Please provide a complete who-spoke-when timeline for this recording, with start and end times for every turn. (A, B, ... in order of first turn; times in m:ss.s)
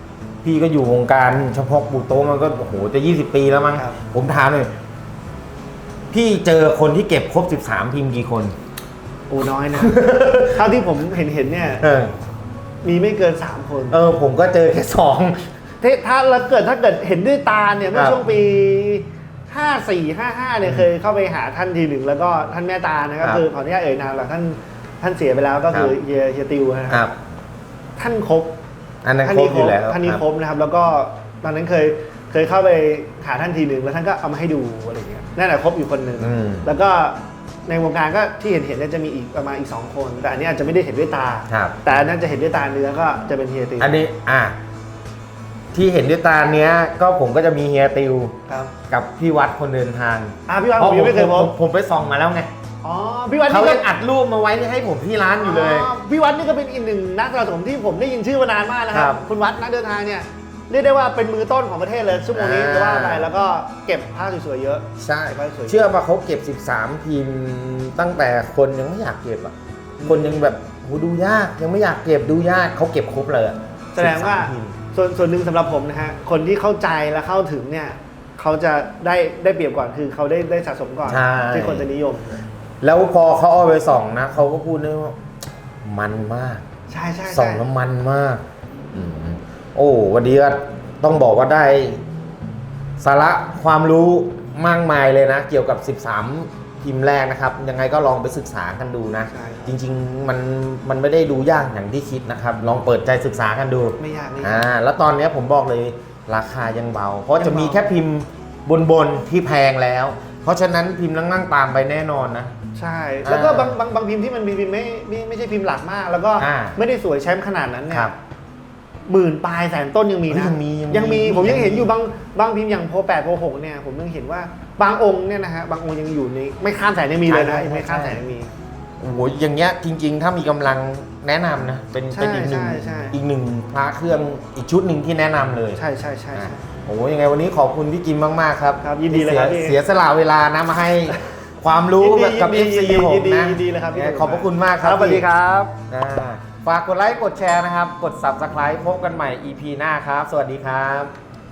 0:00.4-0:04.7 A
0:06.1-0:08.6 A
0:09.3-0:11.9 B
0:09.8-0:10.4 A
0:11.8-0:12.1 A
0:12.8-0:14.0 B
0:13.9-0:15.5 A
0:15.8-0:27.0 B
0:17.9-0:18.3 A
0:26.9-0:27.2 A
0:28.0-0:28.5 B
0:29.0-0:30.2 A
0:29.2-0:44.0 B
0:36.2-0:36.7 A
0:41.5-0:41.8 A
0:43.8-0:44.6 A
0:45.7-0:48.4 A
0:48.5-0:48.7 B
0:48.9-0:52.5 A
0:50.5-0:51.5 B
0:52.8-0:53.8 B
0:53.5-0:55.9 A
0:55.4-1:05.9 B
0:58.9-0:59.2 A
1:02.3-1:03.3 A
1:05.0-1:14.8 A
1:10.0-1:10.4 B
1:13.9-1:22.4 B
1:21.0-1:21.9 A
1:22.8-1:25.2 A
1:25.8-1:26.6 A
1:26.9-1:27.6 B
1:27.3-1:32.0 A
1:33.0-1:52.5 A
1:39.3-1:39.8 B
1:44.0-1:44.6 B
1:47.4-1:47.8 B
1:52.8-1:58.1 B
1:53.2-1:53.7 A
1:56.4-1:56.8 A
1:59.1-2:08.5 B
2:00.3-2:01.9 A
2:07.3-2:08.2 A
2:09.0-2:15.8 A
2:12.1-2:13.1 B
2:15.7-2:16.6 B
2:16.4-2:25.2 A
2:18.8-2:19.8 B
2:22.0-2:25.7 B
2:25.9-2:31.1 A